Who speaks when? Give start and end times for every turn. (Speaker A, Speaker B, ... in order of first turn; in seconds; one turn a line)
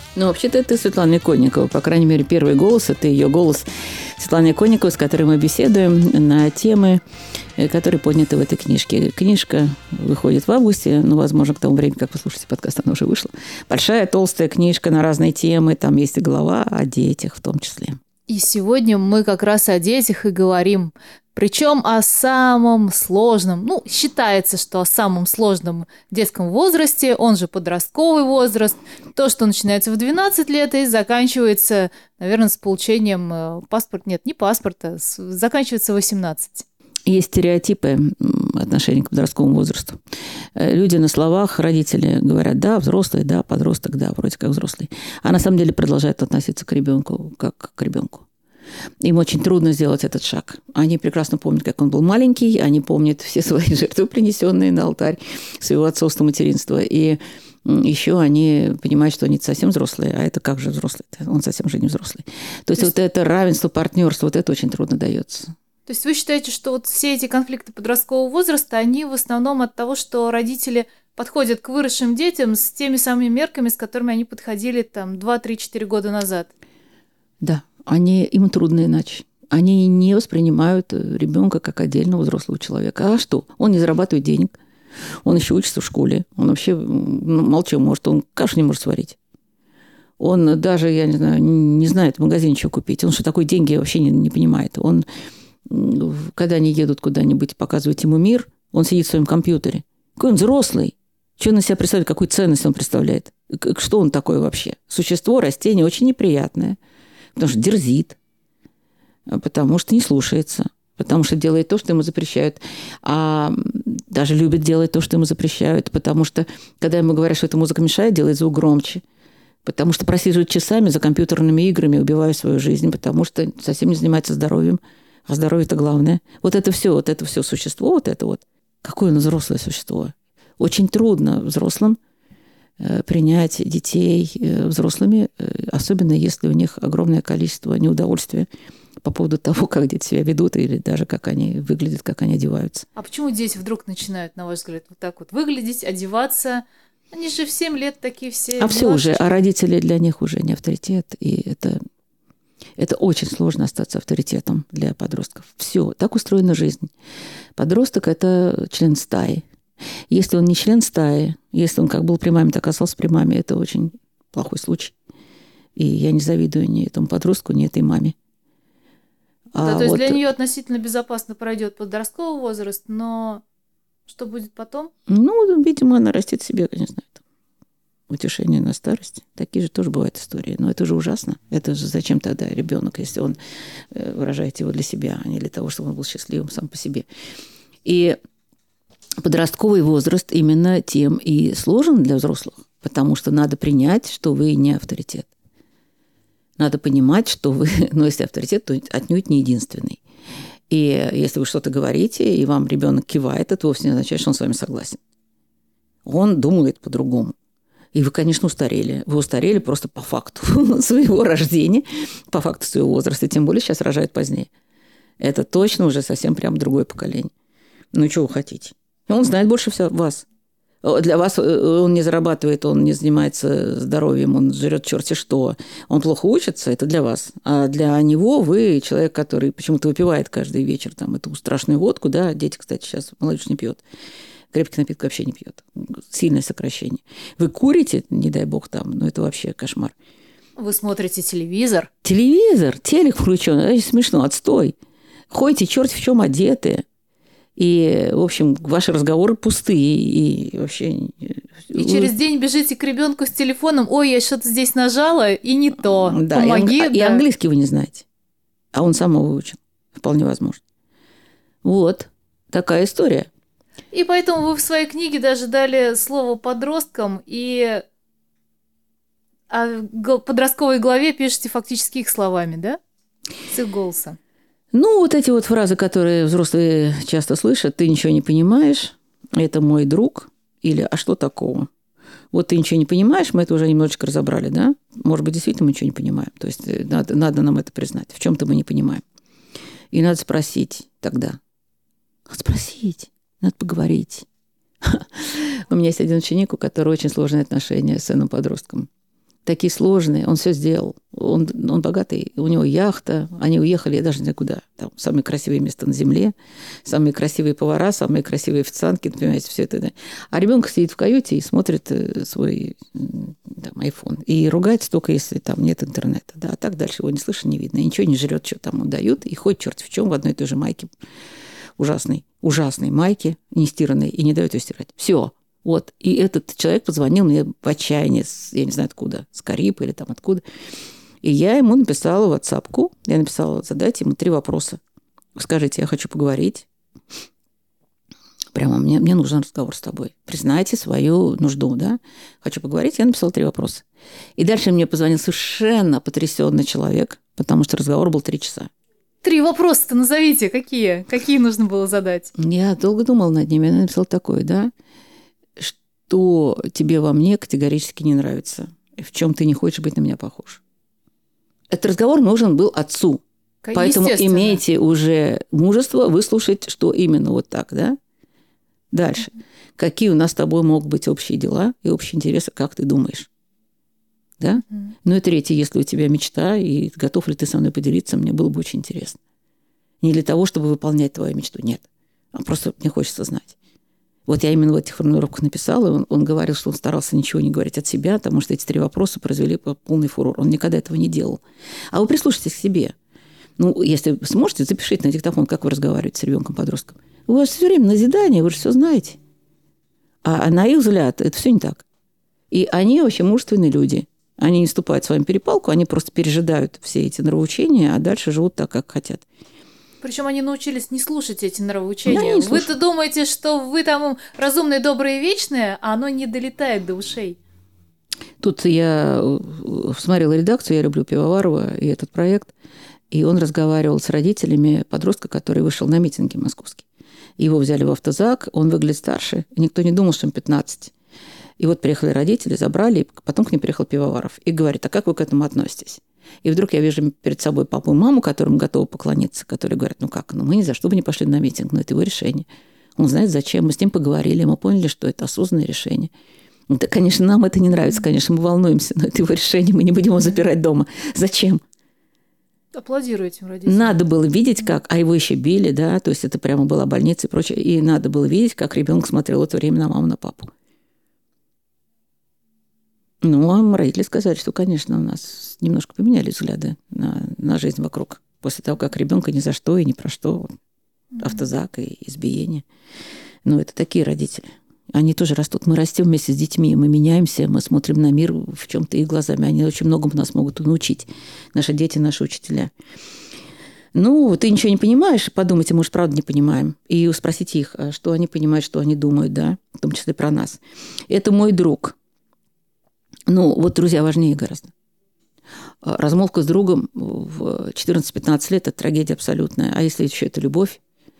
Speaker A: 0.1-3.7
Speaker A: 4.2-7.0
Speaker A: 7.6-18.0
Speaker B: 18.3-36.6
Speaker A: 37.1-40.0
Speaker A: 40.5-48.2
Speaker A: 49.0-65.5
Speaker B: 65.8-76.5
Speaker A: 77.4-84.5
Speaker A: 85.2-89.2
Speaker A: 90.2-95.0
Speaker A: 95.7-106.8
Speaker A: 107.3-108.2
Speaker A: 109.3-119.0
Speaker A: 119.6-132.0
Speaker A: 132.8-138.5
Speaker A: 139.0-142.9
Speaker B: 142.9-149.3
Speaker A: 148.6-151.8
Speaker A: 152.8-156.9
Speaker A: 157.6-159.4
Speaker A: 160.1-164.9
Speaker A: 165.8-168.1
Speaker A: 169.5-170.2
Speaker B: 169.6-173.4
Speaker B: 174.1-174.9
Speaker A: 175.1-177.2
Speaker A: 178.1-183.4
Speaker A: 183.9-187.1
Speaker A: 187.8-188.2
Speaker A: 189.2-195.3
Speaker A: 196.6-200.0
Speaker A: 200.7-205.0
Speaker A: 206.0-207.3
Speaker A: 207.9-214.5
Speaker A: 215.2-217.3
Speaker A: 217.9-220.2
Speaker A: 220.8-233.8
Speaker A: 234.5-239.9
Speaker B: 240.6-241.9
Speaker A: 242.0-244.7
Speaker A: 245.3-246.8
Speaker A: 247.6-252.1
Speaker B: 251.7-257.2
Speaker A: 255.8-258.1
Speaker A: 258.7-260.6
Speaker A: 261.6-263.3
Speaker B: 263.9-267.8
Speaker B: 269.5-272.8
Speaker B: 273.5-274.2
Speaker A: 274.7-281.7
Speaker A: 282.3-289.0
Speaker A: 289.9-291.4
Speaker A: 292.3-294.2
Speaker A: 294.8-298.9
Speaker A: 299.4-306.3
Speaker A: 306.8-320.9
Speaker A: 321.8-330.4
Speaker A: 331.2-334.8
Speaker A: 335.4-336.7
Speaker A: 338.5-343.8
Speaker A: 344.4-348.7
Speaker B: 349.2-352.3
Speaker A: 352.4-354.7
Speaker A: 355.6-360.6
Speaker A: 361.7-363.2
Speaker B: 363.6-364.6
Speaker A: 363.7-368.0
Speaker A: 368.9-373.3
Speaker A: 374.4-379.2
Speaker A: 380.0-383.6
Speaker A: 384.3-391.4
Speaker A: 391.9-392.9
Speaker A: 393.6-399.2
Speaker A: 400.2-401.8
Speaker A: 402.5-409.2
Speaker B: 410.0-417.4
Speaker A: 412.1-412.7
Speaker A: 418.4-422.5
Speaker A: 423.1-426.9
Speaker A: 427.4-430.9
Speaker A: 431.6-442.4
Speaker A: 443.0-446.1
Speaker A: 446.7-451.6
Speaker B: 452.7-454.0
Speaker A: 453.6-460.5
Speaker A: 463.2-470.5
Speaker B: 471.1-471.4
Speaker A: 471.2-472.6
Speaker A: 473.4-482.7
Speaker A: 483.9-491.9
Speaker A: 493.3-494.7
Speaker A: 495.8-500.8